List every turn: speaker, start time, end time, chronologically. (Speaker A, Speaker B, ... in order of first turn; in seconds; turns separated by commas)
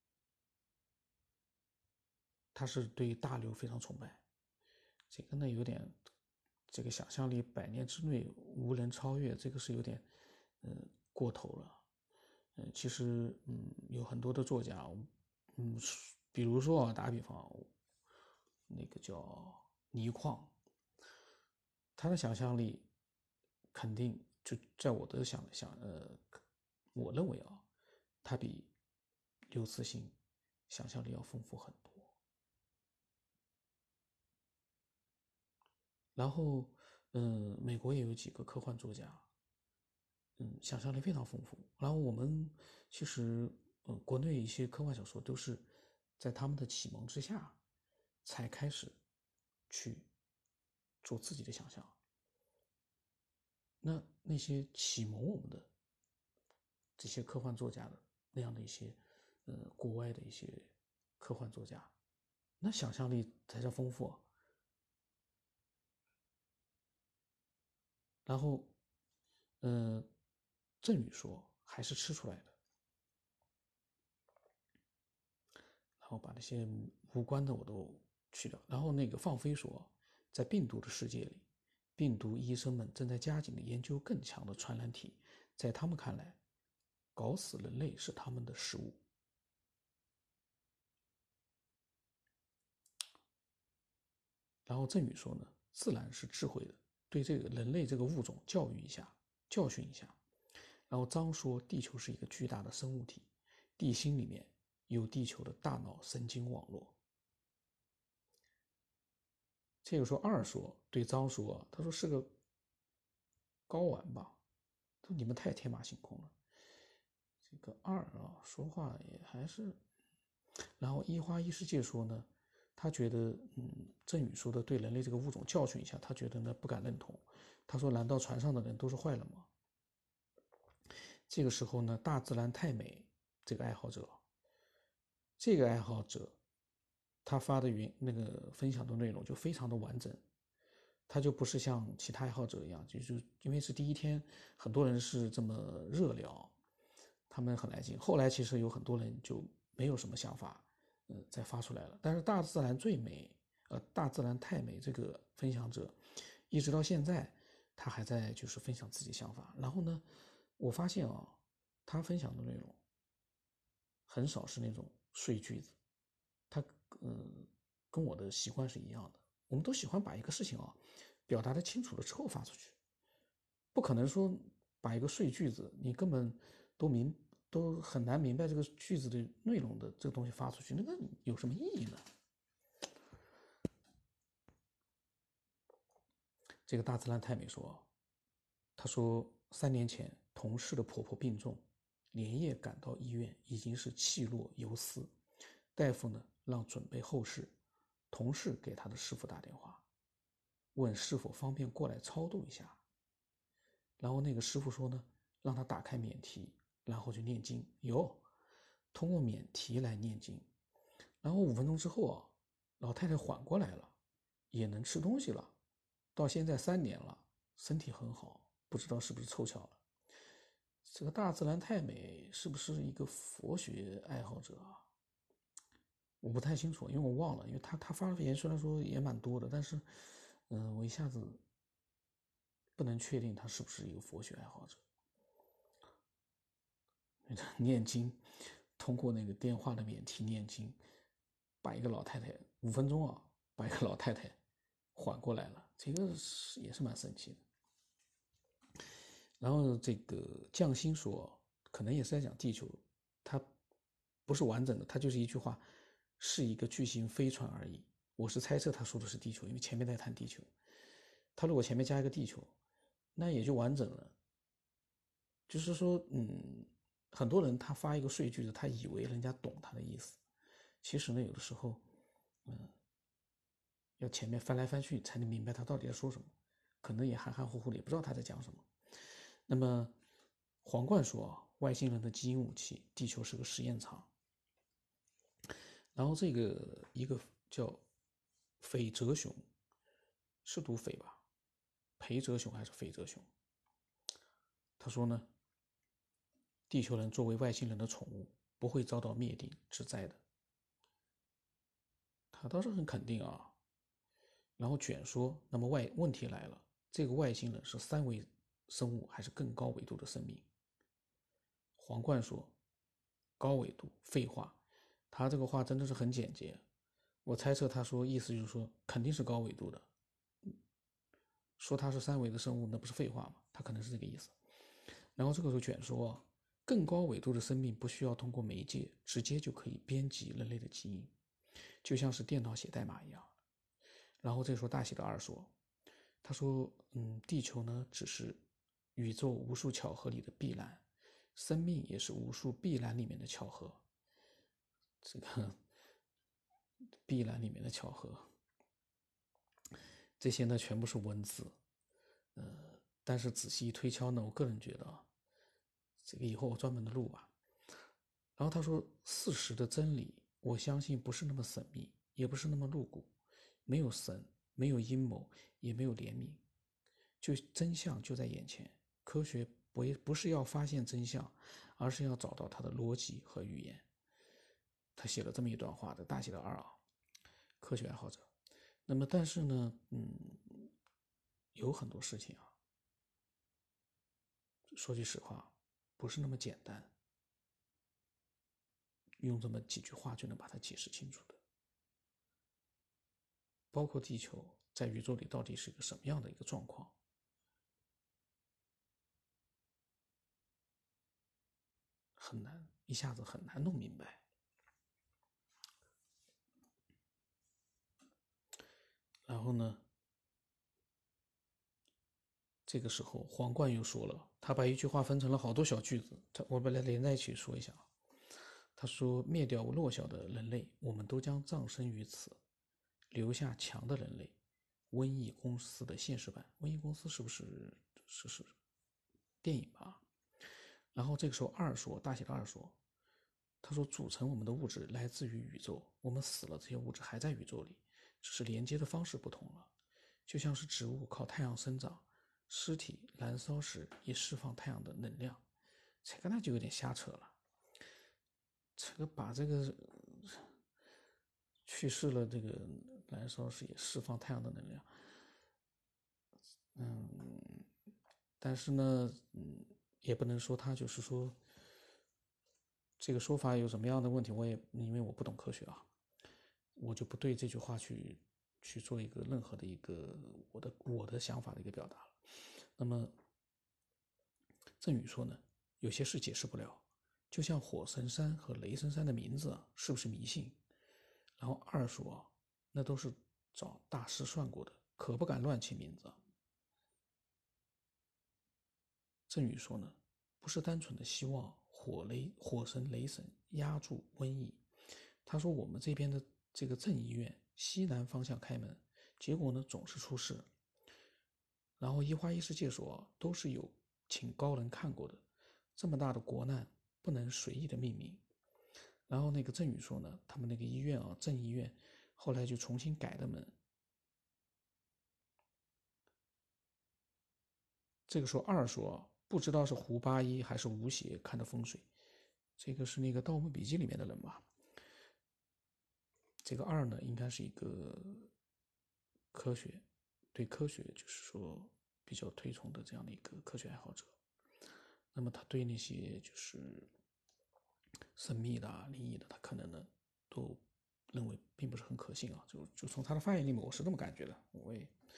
Speaker A: 2.5-4.2, Speaker A: 5.1-6.0, Speaker A: 6.7-10.0, Speaker A: 10.6-11.8, Speaker A: 12.6-17.7, Speaker A: 18.7-20.5, Speaker A: 21.9-22.9, Speaker A: 23.7-26.4, Speaker A: 26.9-27.6, Speaker A: 28.2-28.7, Speaker A: 29.5-30.1, Speaker A: 30.7-32.1, Speaker A: 36.1-39.2, Speaker A: 40.4-47.6, Speaker A: 48.2-49.0, Speaker A: 49.7-50.1, Speaker A: 51.0-51.9, Speaker A: 53.8-55.7, Speaker A: 57.0-61.9, Speaker A: 62.6-64.2, Speaker A: 68.2-68.7, Speaker A: 69.6-70.1, Speaker A: 70.8-72.5, Speaker A: 76.0-81.4, Speaker A: 82.0-86.4, Speaker A: 87.1-89.0, Speaker A: 94.7-100.2, Speaker A: 100.9-107.0, Speaker A: 109.8-112.3, Speaker A: 113.7-114.4, Speaker A: 115.0-116.3, Speaker A: 117.5-119.8, Speaker A: 120.8-129.5, Speaker A: 131.3-134.2, Speaker A: 135.4-136.3, Speaker A: 137.2-140.2, Speaker A: 141.1-146.5, Speaker A: 147.3-156.0, Speaker A: 156.5-160.0, Speaker A: 160.6-162.8, Speaker A: 164.1-165.7, Speaker A: 166.5-172.8, Speaker A: 173.7-182.0, Speaker A: 186.7-187.9, Speaker A: 188.8-195.1, Speaker A: 195.7-197.5, Speaker A: 198.1-199.8, Speaker A: 200.7-202.8, Speaker A: 204.0-208.2, Speaker A: 208.9-210.5, Speaker A: 211.2-213.9, Speaker A: 214.5-215.5, Speaker A: 216.1-219.8, Speaker A: 220.8-224.8, Speaker A: 226.2-231.4, Speaker A: 232.8-234.8, Speaker A: 237.2-238.2, Speaker A: 238.8-240.8, Speaker A: 241.6-244.3, Speaker A: 244.9-247.4, Speaker A: 249.4-253.4, Speaker A: 254.3-255.6, Speaker A: 256.2-260.5, Speaker A: 261.4-262.5, Speaker A: 263.1-264.1, Speaker A: 265.5-270.2, Speaker A: 270.8-271.8, Speaker A: 272.4-272.7, Speaker A: 274.0-278.7, Speaker A: 279.5-279.9, Speaker A: 280.6-284.1, Speaker A: 285.9-287.8, Speaker A: 288.6-289.5, Speaker A: 290.4-291.2, Speaker A: 292.0-293.3, Speaker A: 294.8-295.3, Speaker A: 296.7-300.2, Speaker A: 302.3-303.5, Speaker A: 304.6-310.4, Speaker A: 311.8-312.5, Speaker A: 313.4-314.6, Speaker A: 315.1-316.6, Speaker A: 317.2-319.9, Speaker A: 321.6-324.3, Speaker A: 325.1-331.1, Speaker A: 331.8-333.3, Speaker A: 334.2-335.5, Speaker A: 336.2-338.4, Speaker A: 338.9-340.8, Speaker A: 341.3-343.8, Speaker A: 345.0-345.6, Speaker A: 347.1-348.3, Speaker A: 350.2-351.5, Speaker A: 352.3-355.1, Speaker A: 356.0-357.3, Speaker A: 358.4-363.1, Speaker A: 363.6-366.4, Speaker A: 367.2-373.9, Speaker A: 374.9-376.8, Speaker A: 377.6-378.3, Speaker A: 378.9-380.7, Speaker A: 381.5-382.5, Speaker A: 384.7-386.9, Speaker A: 389.2-391.4, Speaker A: 393.7-396.9, Speaker A: 402.2-404.2, Speaker A: 409.3-409.8, Speaker A: 412.6-417.9, Speaker A: 418.8-422.4, Speaker A: 423.1-424.3, Speaker A: 424.9-428.5, Speaker A: 429.4-430.0, Speaker A: 430.9-432.8, Speaker A: 433.6-439.7, Speaker A: 440.2-445.4, Speaker A: 446.0-447.3, Speaker A: 448.8-450.4, Speaker A: 451.6-454.9, Speaker A: 456.7-457.6, Speaker A: 458.4-461.4, Speaker A: 463.0-465.9, Speaker A: 466.8-472.2, Speaker A: 472.8-473.1, Speaker A: 474.8-480.6, Speaker A: 481.4-486.2, Speaker A: 489.3-494.6, Speaker A: 495.2-500.5, Speaker A: 501.8-505.2, Speaker A: 505.8-508.2, Speaker A: 509.1-513.5, Speaker A: 518.1-521.9, Speaker A: 522.6-524.4, Speaker A: 526.4-528.3, Speaker A: 529.3-534.1, Speaker A: 535.1-536.9, Speaker A: 538.1-544.9